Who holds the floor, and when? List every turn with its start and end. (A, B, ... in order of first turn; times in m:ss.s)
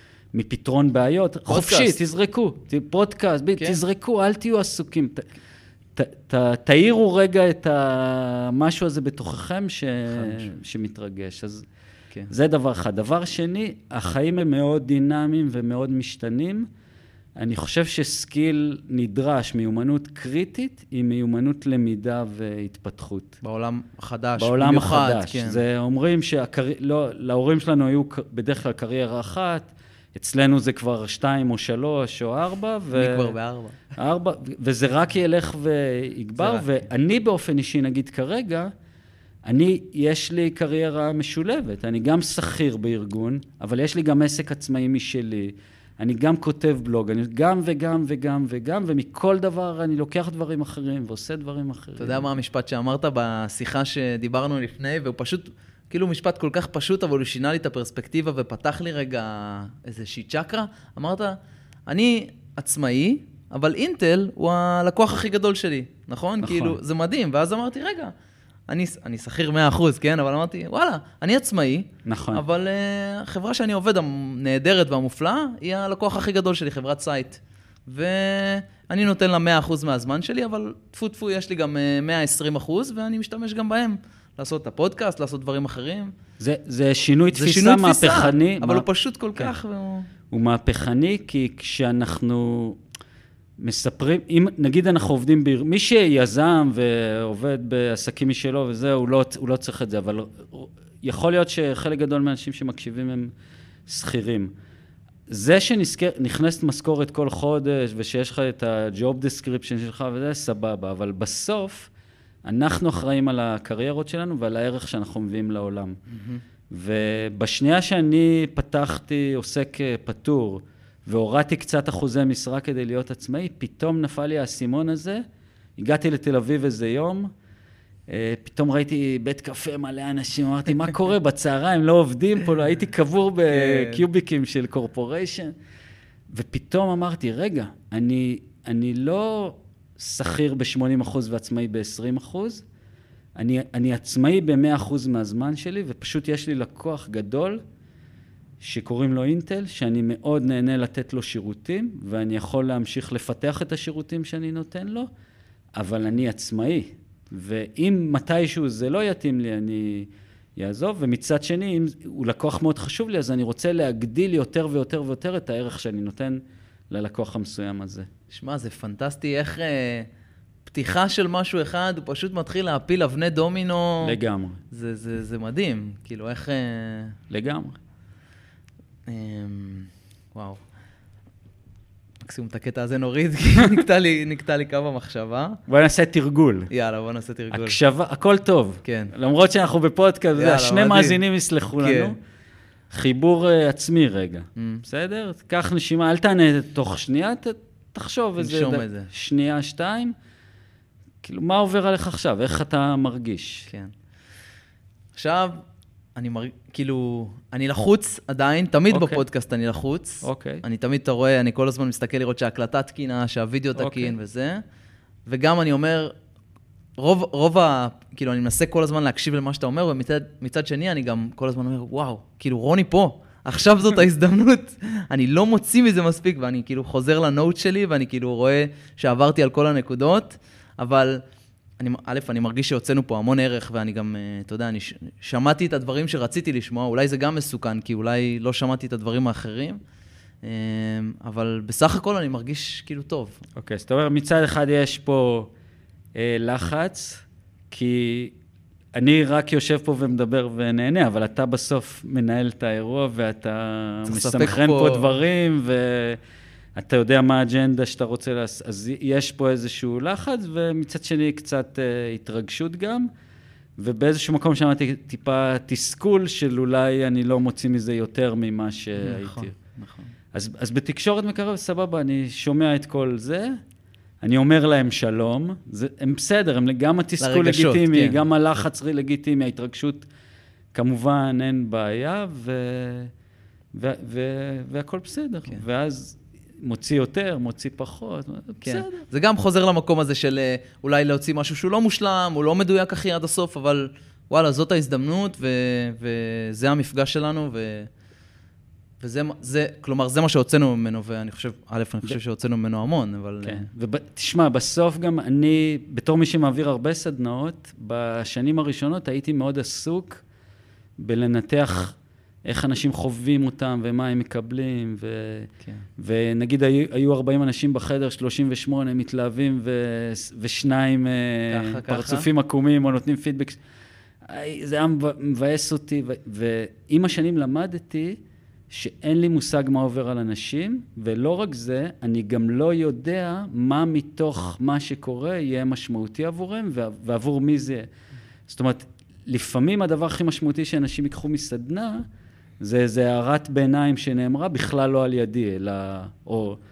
0:00.3-0:05.3 A
0:01.5-0:02.0 B
0:06.0-0:11.7 A
0:10.1-0:10.5 B
0:12.3-0:16.7 A
0:17.4-0:23.4 A
0:23.4-0:25.6 B
0:24.4-0:33.4 A
0:32.9-0:33.9 B
0:34.0-0:38.7 A
0:36.4-0:36.8 B
0:39.5-0:52.3 A
0:52.0-1:01.4 B
1:01.9-1:08.1 B
1:06.4-1:06.8 A
1:08.7-1:26.1 B
1:12.0-1:12.4 A
1:26.4-1:28.8 A
1:27.3-1:30.1 B
1:30.3-1:32.8 A
1:33.6-1:43.3 A
1:43.9-1:44.5 A
1:45.3-1:51.9 A
1:52.4-1:56.0 A
1:56.1-1:56.4 B
1:56.7-2:05.2 A
2:05.8-2:07.3 A
2:08.1-2:15.5 A
2:13.5-2:14.0 B
2:16.3-2:22.6 A
2:23.4-2:27.6 A
2:28.6-2:35.1 A
2:35.8-2:48.1 A
2:48.3-2:50.1 B
2:50.7-2:54.2 B
2:54.0-2:54.6 A
2:54.7-2:57.2 B
2:57.3-2:57.8 A
2:59.1-3:00.6 B
3:02.2-3:05.6 B
3:05.7-3:06.7 A
3:06.7-3:07.8 B
3:07.5-3:12.2 A
3:08.8-3:09.1 B
3:10.4-3:11.2 B
3:11.8-3:12.1 B
3:12.9-3:20.1 A
3:14.6-3:14.8 B
3:18.4-3:19.1 B
3:21.2-3:23.7 A
3:25.1-3:25.6 B
3:26.2-3:34.6 B
3:28.9-3:29.2 A
3:30.2-3:30.6 A
3:33.8-3:34.1 A
3:35.3-3:36.1 B
3:37.0-3:51.2 B
3:51.8-3:59.8 B
4:00.4-4:03.4 B
4:03.6-4:05.5 A
4:06.1-4:08.3 A
4:09.0-4:16.2 A
4:14.1-4:15.1 B
4:16.8-4:23.1 A
4:23.8-4:29.6 A
4:29.0-4:30.1 B
4:30.3-4:33.6 A
4:34.2-4:40.1 A
4:37.2-4:38.2 B
4:40.7-4:43.1 A
4:43.7-4:49.0 A
4:48.6-4:57.9 B
4:59.0-5:03.7 B
5:03.4-5:10.2 A
5:11.0-5:23.6 A
5:21.5-5:22.3 B
5:24.2-5:37.8 A
5:38.5-5:42.0 A
5:42.6-5:46.6 A